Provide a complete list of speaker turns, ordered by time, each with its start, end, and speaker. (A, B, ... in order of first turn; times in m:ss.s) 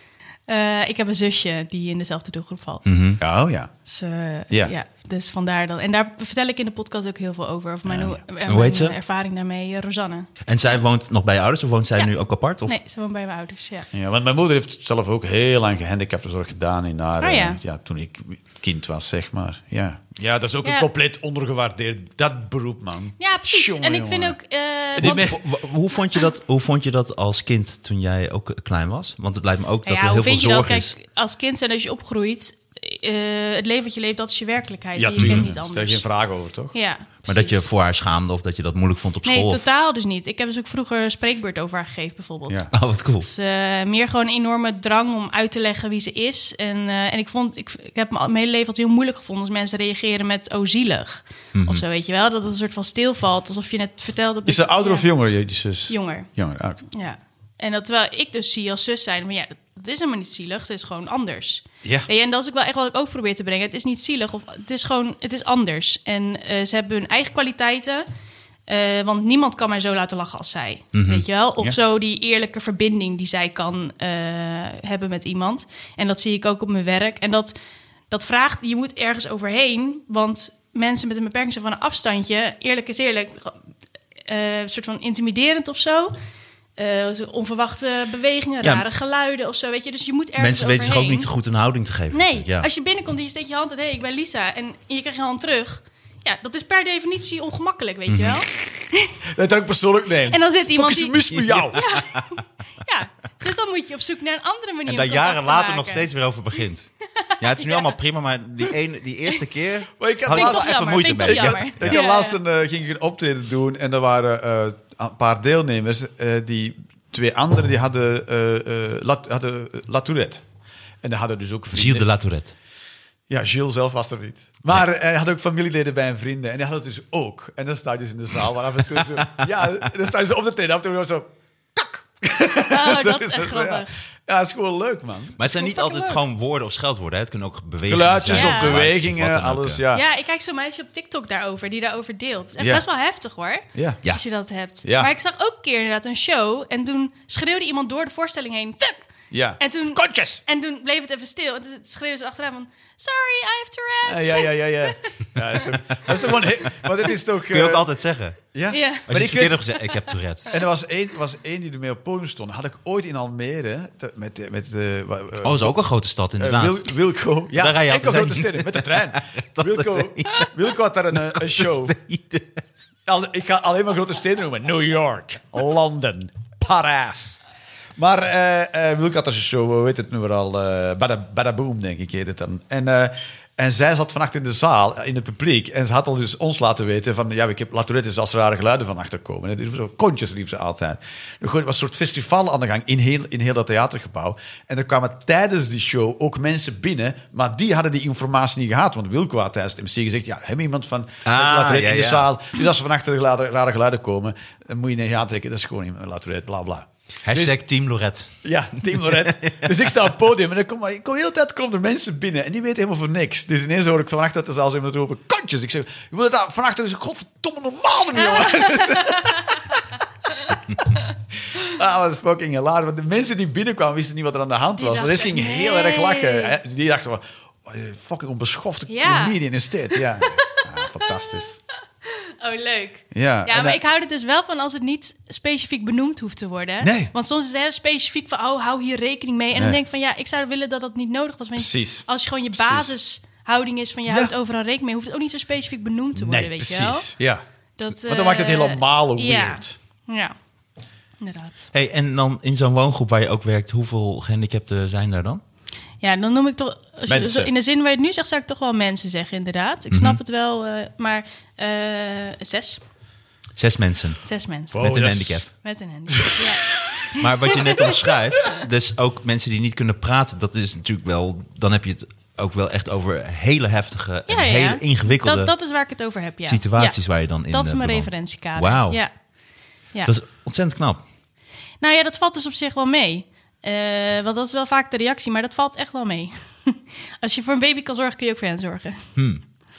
0:00.5-0:02.8 A
0:02.8-0:03.2 B
0:03.2-0:03.7 C
0:03.9-0:10.3 A
0:07.9-0:08.2 C
0:08.5-0:09.0 B
0:10.4-0:12.8 B
0:12.7-0:13.9 A
0:13.9-0:24.4 C
0:17.2-0:17.6 A
0:23.2-0:25.4 A
0:25.0-0:25.4 C
0:25.0-0:30.9 B
0:29.8-0:36.0 A
0:35.0-0:36.8 C
0:35.2-0:35.5 B
0:36.7-0:37.6 A
0:37.3-0:39.6 B
0:39.2-0:42.7 A
0:42.7-0:43.3 B
0:43.2-0:55.1 A
0:51.6-0:51.8 B
0:54.5-0:56.8 C
0:55.9-0:56.3 A
0:56.9-1:08.1 A
1:08.7-1:17.6 A
1:10.9-1:11.2 B
1:18.1-1:23.6 A
1:24.3-1:26.2 A
1:26.8-1:31.3 A
1:30.4-1:32.7 B
1:32.1-1:39.2 A
1:38.1-1:38.4 B
1:39.3-1:41.8 C
1:40.3-1:41.2 A
1:41.3-1:42.3 B
1:41.7-1:46.1 A
1:44.9-1:46.9 B
1:47.2-1:48.0 A
1:47.4-1:52.0 B
1:50.0-2:00.4 C
1:50.3-1:52.4 A
2:01.0-2:02.1 C
2:01.7-2:02.6 B
2:03.3-2:15.4 C
2:09.2-2:09.4 B
2:12.6-2:14.0 A
2:15.4-2:19.8 B
2:15.5-2:16.2 A
2:17.9-2:20.0 C
2:18.3-2:18.8 A
2:19.9-2:35.3 A
2:23.7-2:24.0 C
2:24.8-2:25.1 C
2:29.3-2:30.4 C
2:34.1-2:37.9 C
2:36.1-2:36.9 B
2:37.4-2:38.4 B
2:38.5-2:39.6 C
2:38.7-2:39.1 A
2:39.1-2:40.5 B
2:40.5-2:45.7 C
2:45.4-2:47.0 B
2:46.4-2:52.0 C
2:47.5-2:50.5 B
2:51.1-2:52.6 B
2:53.1-2:57.4 C
2:58.0-3:27.6 C
3:21.2-3:22.3 B
3:27.2-3:29.9 B
3:28.4-3:39.7 C
3:38.4-3:39.4 A
3:41.6-3:51.6 C
3:44.8-3:46.6 A
3:48.9-3:49.4 A
3:49.9-3:51.4 A
3:52.1-4:07.1 A
3:53.1-3:53.8 C
3:56.8-3:57.1 C
3:59.6-3:59.8 C
4:01.6-4:02.9 C
4:06.2-4:07.4 C
4:07.8-4:10.4 A
4:08.0-4:09.7 C
4:11.2-4:11.7 A
4:11.7-4:15.4 B
4:16.0-4:22.8 A
4:17.1-4:17.5 C
4:19.9-4:20.2 B
4:23.6-4:24.2 B
4:24.2-4:24.8 A
4:24.7-4:25.5 C
4:24.7-4:25.5 B
4:25.6-4:28.0 A
4:26.1-4:26.9 C
4:27.2-4:35.5 B
4:34.3-4:39.1 A
4:36.4-4:39.0 B
4:40.0-4:41.0 B
4:41.8-4:49.0 A
4:49.2-4:49.4 B